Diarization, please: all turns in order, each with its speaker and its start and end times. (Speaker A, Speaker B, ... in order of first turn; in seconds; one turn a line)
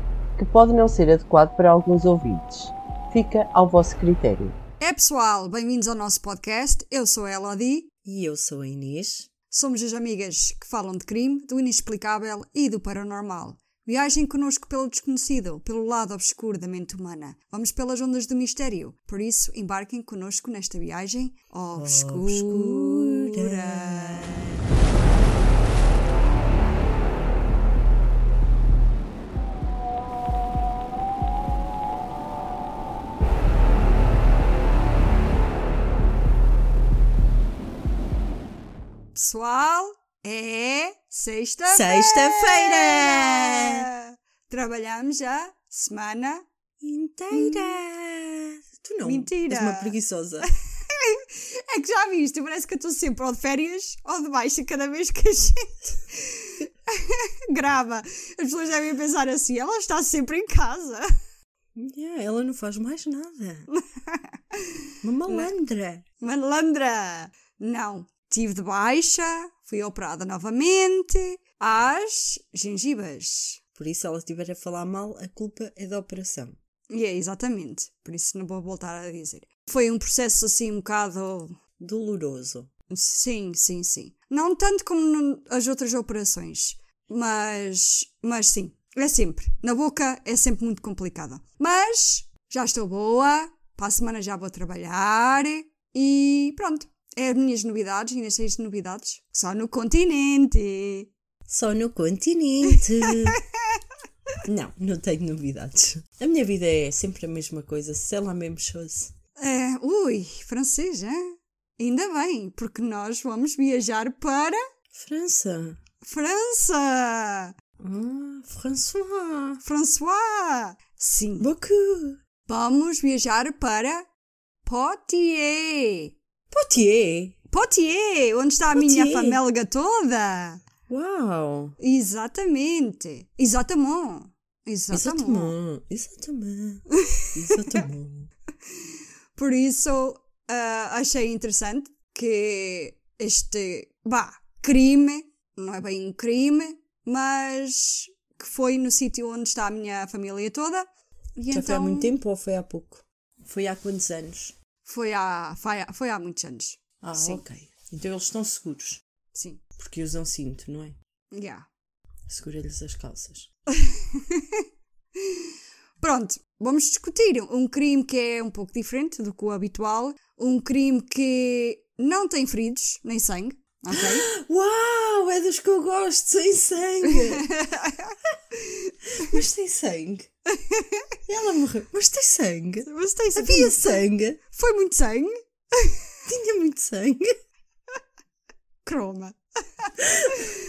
Speaker A: 0.4-2.5
Speaker A: 3.1-4.5
Speaker B: 4.8-7.9
Speaker C: 8.0-9.3
Speaker B: 9.5-24.4
Speaker C: 21.8-24.6
Speaker B: 39.1-46.4
Speaker C: 41.7-43.9
Speaker C: 46.8-50.5
Speaker B: 47.3-47.8
Speaker B: 49.0-61.1
Speaker C: 61.7-63.7
Speaker B: 63.7-64.6
Speaker C: 65.0-66.0
Speaker B: 66.2-73.6
Speaker C: 73.8-76.6
Speaker B: 76.9-81.6
Speaker C: 81.8-82.7
Speaker B: 82.9-101.1
Speaker C: 101.5-103.4
Speaker C: 104.4-109.1
Speaker B: 109.4-114.6
Speaker C: 114.9-115.8
Speaker B: 116.0-117.5
Speaker C: 117.8-119.6
Speaker B: 119.6-121.5
Speaker C: 121.4-122.2
Speaker B: 122.5-124.1
Speaker B: 124.7-126.1
Speaker C: 126.5-127.4
Speaker B: 127.5-130.6
Speaker C: 128.7-129.4
Speaker C: 130.9-131.8
Speaker B: 131.8-135.5
Speaker C: 134.9-138.3
Speaker B: 137.0-137.3
Speaker B: 139.3-152.1
Speaker C: 151.5-154.5
Speaker B: 154.8-157.4
Speaker C: 157.0-159.0
Speaker B: 159.3-159.6
Speaker C: 159.8-160.9
Speaker B: 161.3-161.7
Speaker C: 162.3-163.5
Speaker B: 163.8-164.6
Speaker B: 165.2-165.5
Speaker B: 166.0-174.3
Speaker C: 173.9-177.4
Speaker B: 177.0-179.3
Speaker C: 179.2-180.3
Speaker B: 180.5-181.1
Speaker C: 181.2-184.4
Speaker B: 182.8-186.0
Speaker C: 186.3-187.3
Speaker B: 188.8-190.5
Speaker C: 190.0-190.5